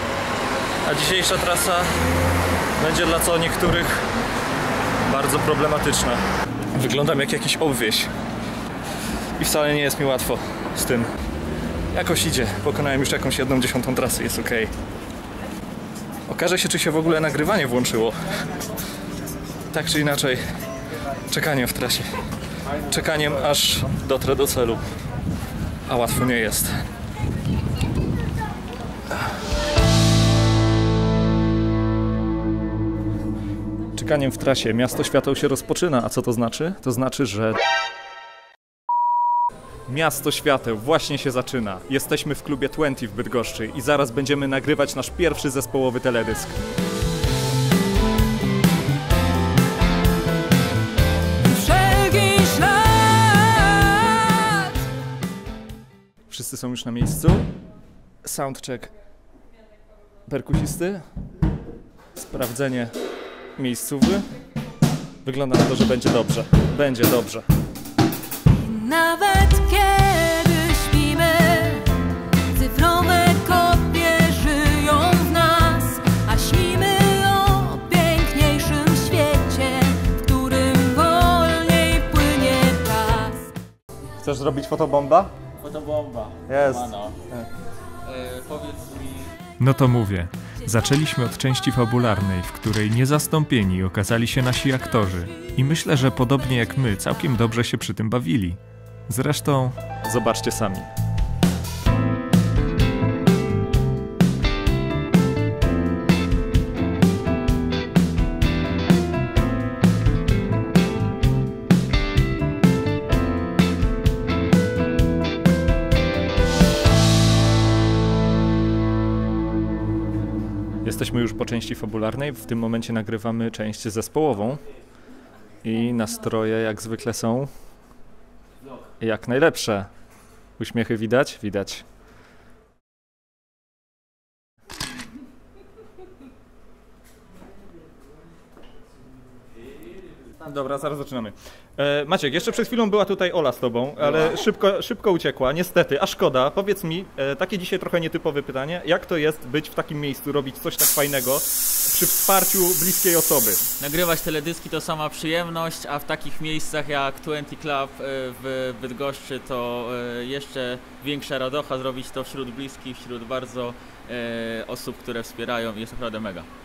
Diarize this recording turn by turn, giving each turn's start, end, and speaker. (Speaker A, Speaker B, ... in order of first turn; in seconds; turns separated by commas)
Speaker A: 0.8-1.9, Speaker A: 2.8-4.0, Speaker A: 5.1-6.2, Speaker A: 6.7-8.1, Speaker A: 9.4-11.1, Speaker A: 11.9-14.7, Speaker A: 16.3-18.2, Speaker A: 19.7-20.4, Speaker A: 21.3-22.1, Speaker A: 22.9-24.8, Speaker A: 25.9-26.7, Speaker A: 34.0-37.6, Speaker A: 39.9-46.6, Speaker B: 51.4-54.9, Speaker A: 56.3-57.5, Speaker A: 58.2-58.9, Speaker A: 60.3-61.0, Speaker A: 62.1-62.9, Speaker A: 63.6-64.2, Speaker A: 65.2-67.5, Speaker B: 68.5-83.5, Speaker A: 84.2-85.3, Speaker C: 85.6-87.2, Speaker A: 86.5-87.5, Speaker C: 88.0-89.3, Speaker D: 89.6-98.6, Speaker D: 99.1-99.7, Speaker A: 100.0-100.9, Speaker A: 120.8-124.6, Speaker A: 125.6-127.5, Speaker A: 129.0-129.9, Speaker A: 130.6-131.8, Speaker A: 140.4-153.6, Speaker C: 153.8-166.5